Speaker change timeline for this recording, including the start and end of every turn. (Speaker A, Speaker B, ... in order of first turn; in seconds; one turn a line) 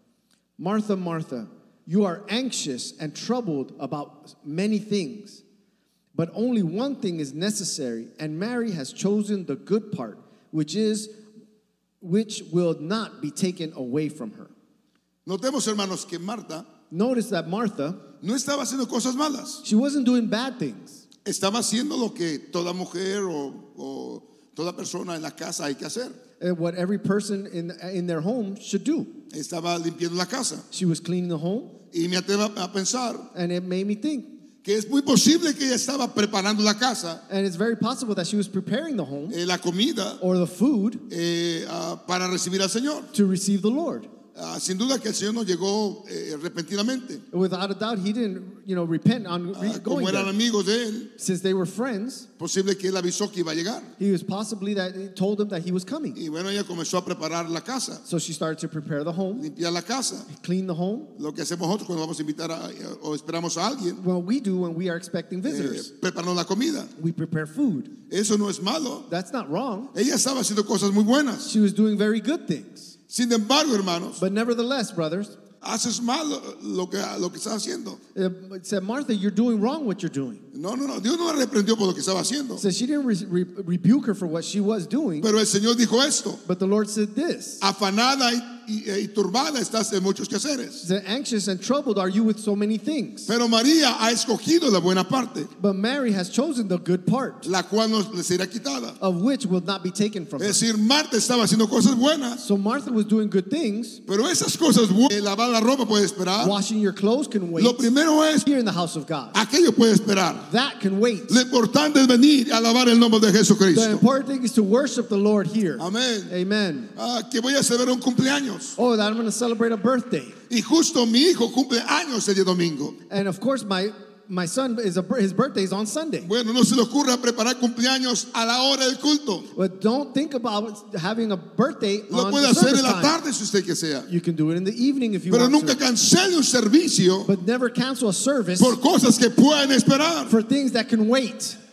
Speaker A: 0.6-5.4
Speaker A: 6.1-11.2
Speaker A: 12.0-14.5
Speaker B: 15.2-16.7
Speaker A: 16.9-18.0
Speaker B: 18.2-19.6
Speaker A: 19.6-21.0
Speaker B: 21.2-26.2
Speaker A: 26.4-29.1
Speaker B: 29.3-30.6
Speaker A: 30.7-31.7
Speaker B: 31.9-33.3
Speaker A: 33.3-34.3
Speaker B: 34.6-37.2
Speaker A: 37.3-39.4
Speaker B: 39.3-40.2
Speaker A: 40.2-41.0
Speaker B: 41.1-43.1
Speaker A: 43.1-44.1
Speaker B: 44.3-47.2
Speaker A: 47.3-50.3
Speaker B: 49.5-51.1
Speaker A: 51.2-52.3
Speaker B: 52.4-53.9
Speaker A: 54.0-56.2
Speaker B: 56.1-58.0
Speaker A: 58.0-59.5
Speaker B: 59.4-60.3
Speaker A: 60.3-61.1
Speaker B: 61.1-64.0
Speaker A: 64.0-65.9
Speaker B: 65.5-66.9
Speaker A: 67.0-67.9
Speaker B: 68.1-69.1
Speaker A: 69.1-69.9
Speaker B: 69.9-71.5
Speaker A: 71.5-72.9
Speaker B: 73.1-74.2
Speaker A: 74.2-75.4
Speaker B: 75.6-78.0
Speaker A: 78.1-80.4
Speaker B: 80.5-82.6
Speaker A: 82.6-85.3
Speaker B: 85.2-86.4
Speaker A: 86.4-87.6
Speaker B: 87.6-90.8
Speaker A: 90.8-93.3
Speaker B: 93.3-95.5
Speaker A: 95.6-97.5
Speaker B: 97.4-99.0
Speaker A: 99.0-100.6
Speaker B: 100.4-102.4
Speaker A: 102.4-104.0
Speaker B: 104.0-106.6
Speaker A: 106.4-107.9
Speaker B: 107.6-108.5
Speaker A: 108.4-109.3
Speaker B: 109.3-110.5
Speaker A: 110.5-111.4
Speaker B: 111.3-114.0
Speaker A: 113.7-116.9
Speaker B: 115.8-116.3
Speaker B: 116.9-118.8
Speaker A: 118.8-120.4
Speaker B: 120.5-123.0
Speaker A: 123.1-126.3
Speaker B: 126.2-129.5
Speaker A: 129.5-133.2
Speaker B: 132.1-134.1
Speaker A: 134.1-135.8
Speaker B: 135.3-137.3
Speaker A: 137.3-138.8
Speaker B: 138.6-140.3
Speaker A: 140.3-141.6